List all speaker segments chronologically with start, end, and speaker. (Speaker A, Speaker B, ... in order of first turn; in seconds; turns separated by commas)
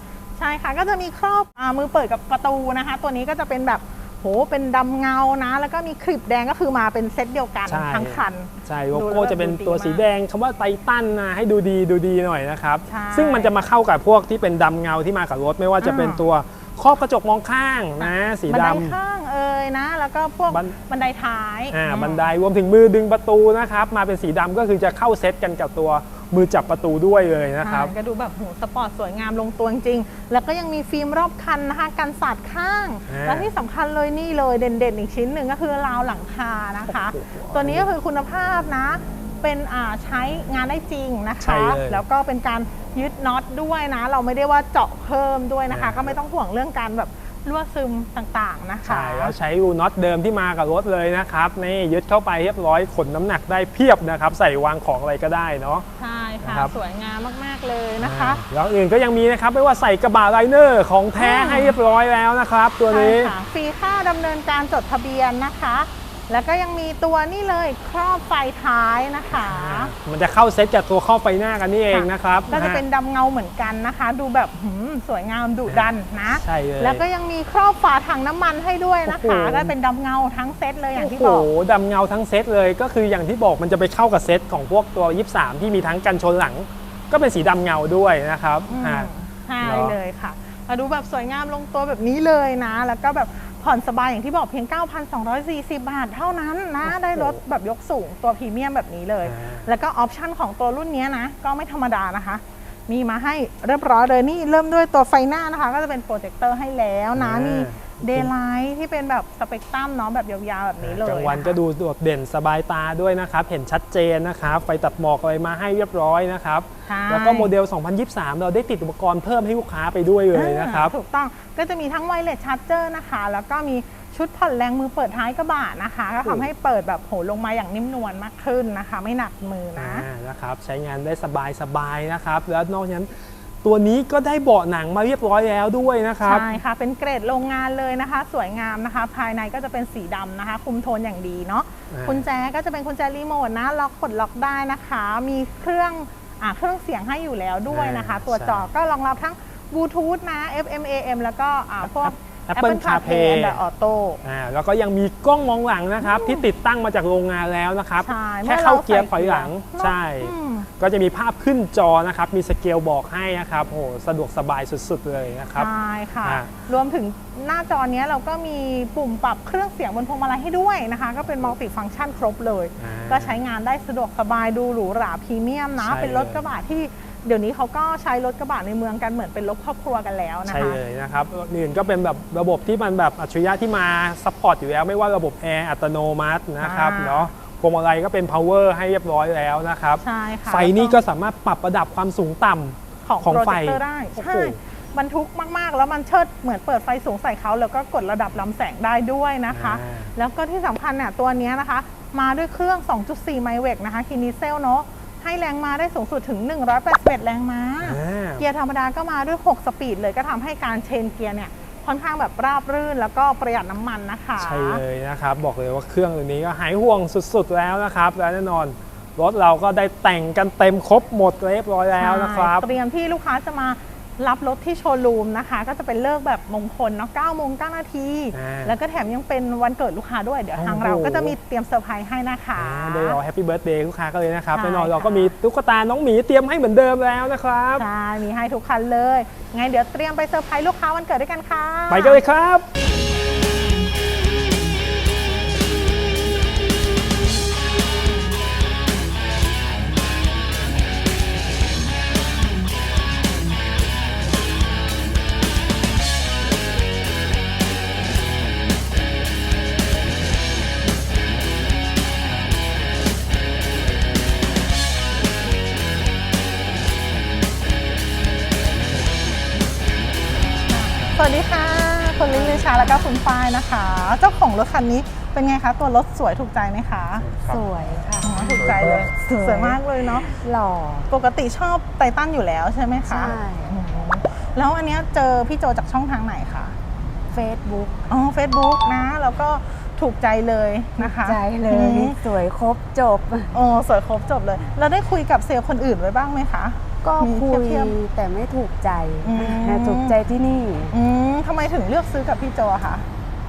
Speaker A: 0.4-10.0, Speaker B: 7.7-19.0, Speaker A: 12.9-13.5, Speaker A: 15.8-16.2, Speaker A: 18.0-22.3, Speaker B: 20.5-20.8, Speaker B: 21.7-27.9, Speaker A: 27.6-49.4, Speaker B: 33.1-33.5, Speaker B: 36.9-37.9, Speaker B: 41.4-42.0, Speaker B: 45.7-46.2, Speaker B: 48.9-55.9, Speaker A: 56.0-58.4, Speaker B: 56.4-56.7, Speaker B: 58.0-63.3, Speaker A: 61.1-61.8, Speaker A: 62.9-69.9, Speaker B: 69.3-72.8, Speaker A: 71.9-81.5, Speaker B: 75.7-77.0, Speaker B: 79.1-79.7, Speaker B: 81.0-89.1, Speaker A: 88.7-111.6, Speaker B: 89.6-90.0, Speaker B: 96.8-97.4, Speaker B: 99.2-99.7, Speaker B: 107.2-108.3, Speaker B: 110.8-120.9, Speaker A: 116.9-117.5, Speaker A: 120.3-130.1, Speaker B: 129.8-136.5, Speaker A: 136.2-154.2, Speaker B: 141.9-142.2, Speaker B: 147.7-148.7, Speaker B: 151.8-153.6, Speaker B: 154.2-165.7, Speaker A: 156.0-156.4, Speaker A: 158.0-160.7, Speaker A: 165.6-180.8, Speaker B: 166.2-166.5, Speaker B: 172.8-173.4, Speaker B: 175.8-176.4, Speaker B: 180.5-194.6, Speaker A: 186.6-187.3, Speaker A: 190.0-191.0, Speaker A: 193.1-214.8, Speaker B: 199.5-200.1, Speaker B: 207.8-208.4, Speaker B: 214.4-222.7, Speaker A: 222.0-233.2, Speaker B: 228.3-228.8, Speaker B: 230.6-231.4, Speaker B: 232.6-237.8, Speaker A: 234.5-235.3, Speaker A: 237.8-242.2, Speaker B: 241.9-242.7, Speaker A: 270.7-277.3, Speaker C: 272.3-273.2, Speaker C: 277.4-281.1, Speaker A: 278.2-280.4, Speaker A: 281.1-286.8, Speaker C: 283.1-283.8, Speaker C: 287.3-288.1, Speaker A: 288.1-292.2, Speaker C: 291.0-293.6, Speaker A: 293.5-298.0, Speaker C: 297.0-301.0, Speaker A: 299.2-300.2, Speaker A: 300.9-303.1